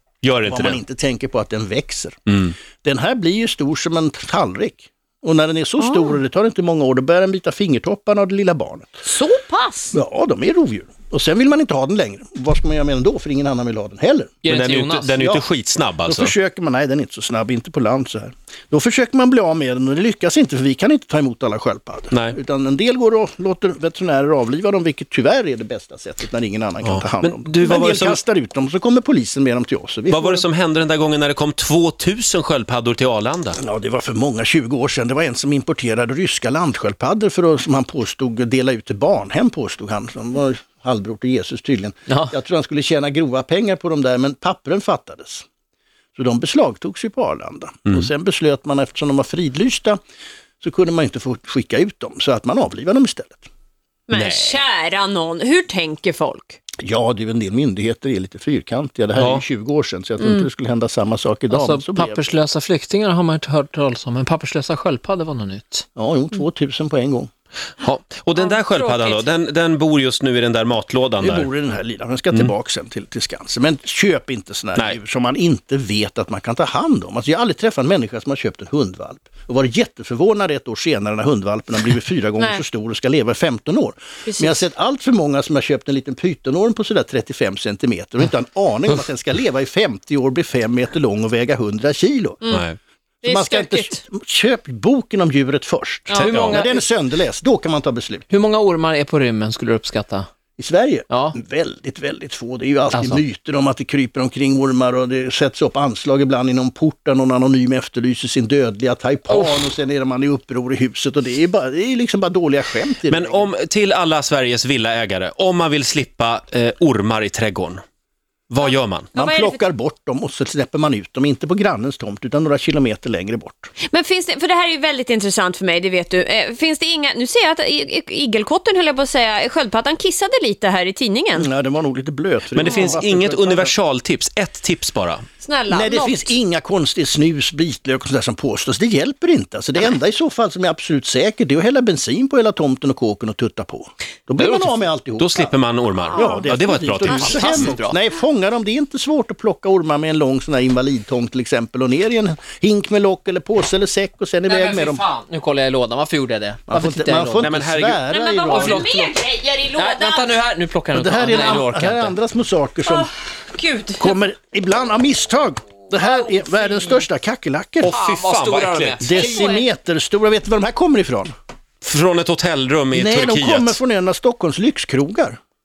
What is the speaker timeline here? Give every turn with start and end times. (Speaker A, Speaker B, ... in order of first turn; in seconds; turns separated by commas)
Speaker A: 0.2-0.8, Speaker B: 0.5-9.0, Speaker C: 5.8-6.1, Speaker C: 9.1-10.0, Speaker B: 9.9-14.4, Speaker D: 14.4-15.2, Speaker A: 14.5-16.3, Speaker B: 15.2-15.5, Speaker B: 16.1-30.4, Speaker A: 22.1-22.4, Speaker A: 26.8-28.2, Speaker A: 30.1-33.6, Speaker B: 33.6-45.5, Speaker B: 46.2-50.0, Speaker B: 50.6-53.5, Speaker C: 54.1-56.6, Speaker A: 54.1-54.6, Speaker B: 56.8-62.3, Speaker A: 59.2-59.4, Speaker C: 60.2-60.5, Speaker D: 61.5-65.8, Speaker B: 66.0-67.3, Speaker A: 67.8-71.5, Speaker C: 68.4-69.3, Speaker B: 71.2-92.4, Speaker C: 84.3-84.6, Speaker A: 92.5-92.8, Speaker C: 93.2-94.0, Speaker B: 93.2-98.2, Speaker C: 96.1-96.4, Speaker D: 96.2-96.9, Speaker D: 98.3-100.3, Speaker B: 100.6-113.5, Speaker D: 101.1-101.3, Speaker D: 102.9-103.2, Speaker A: 113.1-117.8, Speaker A: 118.5-119.1, Speaker B: 119.1-123.7, Speaker C: 119.2-119.6, Speaker C: 123.8-131.5, Speaker B: 131.4-133.7, Speaker A: 132.5-135.3, Speaker C: 132.7-132.9, Speaker C: 135.4-136.3, Speaker B: 135.7-145.6, Speaker A: 145.2-147.9, Speaker B: 146.1-155.1, Speaker C: 146.2-146.5, Speaker D: 147.1-147.9, Speaker D: 154.5-157.6, Speaker B: 156.7-159.1, Speaker A: 157.4-158.0, Speaker C: 158.1-160.3, Speaker D: 158.5-158.9, Speaker D: 159.8-162.1, Speaker B: 160.9-163.1, Speaker C: 162.9-164.2, Speaker B: 164.0-168.0, Speaker C: 166.3-166.9, Speaker A: 167.8-169.2, Speaker D: 167.9-169.4, Speaker B: 169.0-171.3, Speaker C: 169.2-169.6, Speaker A: 171.8-173.8, Speaker B: 172.9-175.4